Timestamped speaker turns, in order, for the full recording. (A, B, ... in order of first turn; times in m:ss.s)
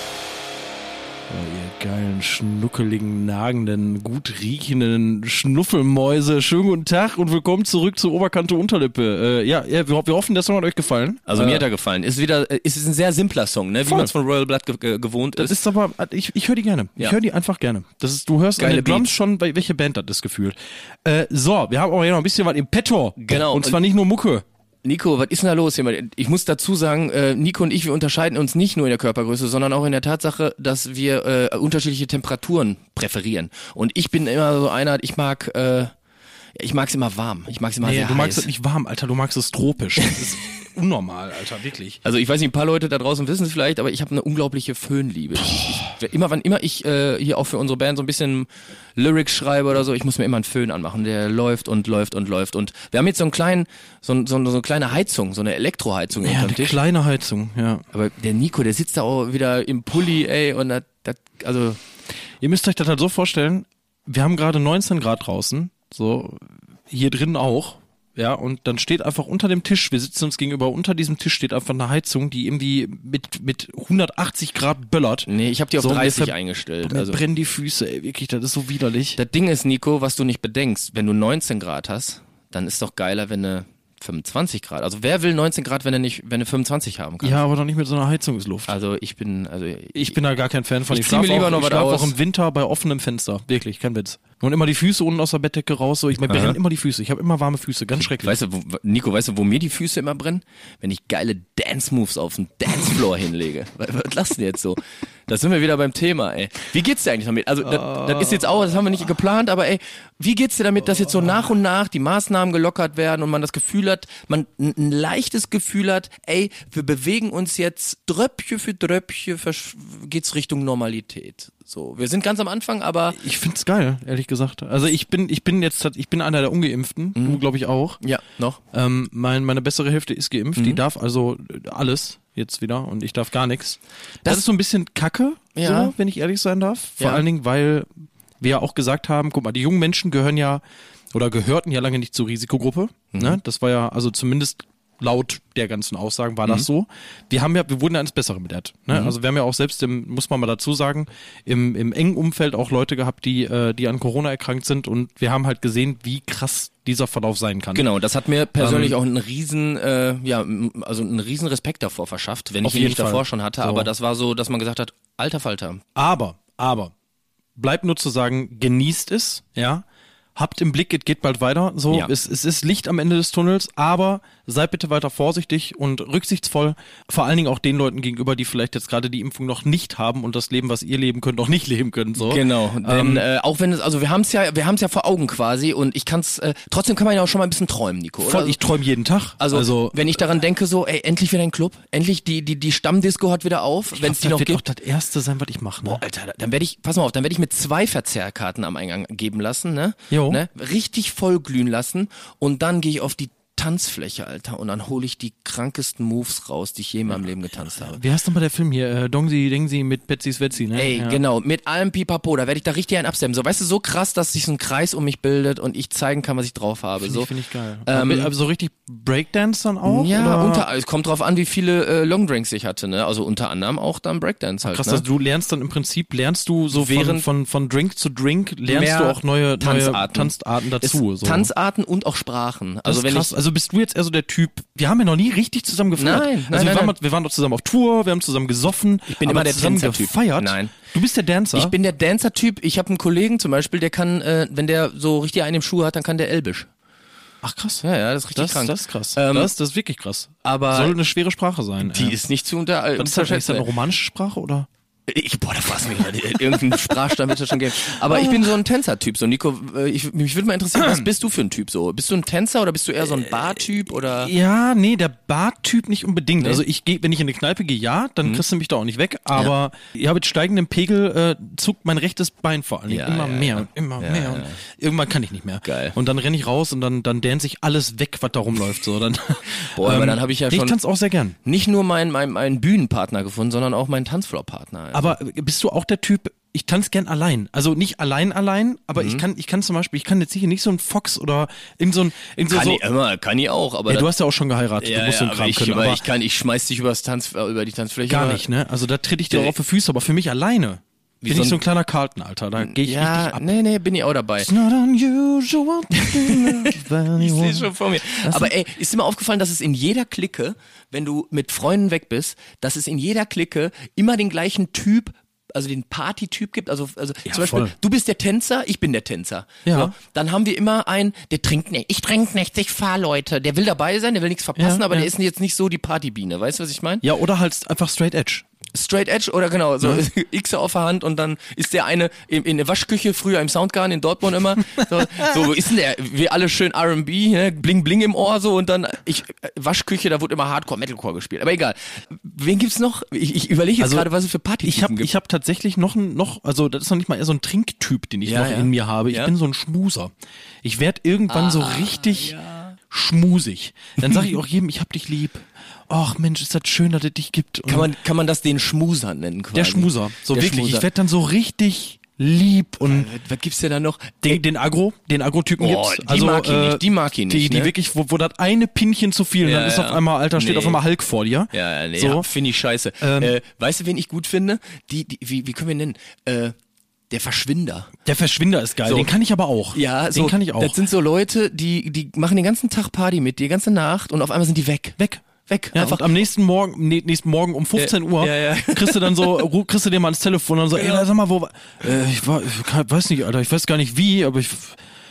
0:01.3-0:11.6 A
0:11.3-0:15.6 B
0:13.8-0:14.1 A
0:15.4-0:24.4 A
0:18.6-0:19.1 B
0:23.2-0:23.8 B
0:24.8-0:35.9 B
0:36.6-0:38.5 B
0:37.8-0:42.0 A
0:42.0-0:56.8 B
0:56.2-0:57.8 A
0:57.9-1:01.8 B
1:02.4-1:19.2 A
1:15.2-1:17.2 B
1:19.2-1:27.4 B
1:27.2-1:28.8 A
1:28.7-1:30.2 B
1:29.9-1:38.4 A
1:30.9-1:32.1 B
1:36.3-1:36.6 B
1:38.1-2:03.2 B
1:47.6-1:48.4 A
2:03.1-2:08.0 A
2:07.2-2:07.4 B
2:08.0-2:08.6 B
2:08.7-2:17.9 A
2:10.6-2:10.8 B
2:15.6-2:15.9 B
2:17.0-2:17.2 B
2:18.4-2:20.6 A
2:21.1-2:37.8 A
2:23.1-2:23.4 B
2:37.7-2:45.8 B
2:38.6-2:39.0 A
2:42.6-2:43.9 A
2:45.9-2:46.9 A
2:47.6-2:49.8 A
2:50.4-3:03.2 A
3:02.2-3:08.6 B
3:08.2-3:10.1 A
3:09.4-3:14.6 B
3:13.9-3:16.0 A
3:15.8-3:28.0 B
3:20.1-3:20.4 A
3:27.8-3:31.2 A
3:30.7-3:37.3 B
3:37.0-3:40.6 A
3:37.8-3:38.3 B
3:39.8-3:45.0 B
3:44.6-3:51.5 A
3:46.7-3:47.2 B
3:48.7-3:53.4 B
3:52.8-4:01.7 A
3:56.0-3:56.9 B
3:59.1-4:00.7 B
4:01.5-4:06.7 B
4:07.4-4:12.2 A
4:07.8-4:09.5 B
4:10.4-4:11.0 B
4:11.8-4:13.7 B
4:13.0-4:14.7 A
4:15.1-4:24.3 B
4:18.0-4:18.5 A
4:20.8-4:21.0 A
4:24.0-4:41.4 A
4:32.9-4:34.6 B
4:35.6-4:36.0 B
4:39.7-4:40.8 B
4:41.4-4:45.1 B
4:44.9-4:52.8 A
4:49.0-4:49.2 B
4:52.5-4:54.1 B
4:53.9-4:56.0 A
4:54.8-4:58.4 B
4:58.1-5:03.4 A
5:01.2-5:01.6 B
5:02.6-5:04.5 B
5:04.4-5:08.5 A
5:06.0-5:27.0 B
5:17.2-5:17.7 A
5:19.6-5:19.9 A
5:24.6-5:25.1 A
5:27.0-5:28.4 A
5:28.7-5:45.1 B
5:43.8-5:44.1 A
5:44.6-5:57.9 A
5:48.2-5:49.3 B
5:51.3-5:52.7 B
5:54.0-5:54.3 B
5:57.7-6:00.9 B
5:59.5-6:03.1 A
6:02.8-6:04.4 B
6:04.2-6:12.3 A
6:05.6-6:07.7 B
6:09.4-6:10.8 B
6:11.5-6:16.5 B
6:13.0-6:13.3 A
6:17.1-6:17.9 B
6:18.0-6:20.8 A
6:18.8-6:19.1 B
6:19.7-6:26.1 B
6:25.0-6:34.8 A
6:27.8-6:29.4 B
6:30.7-6:31.0 B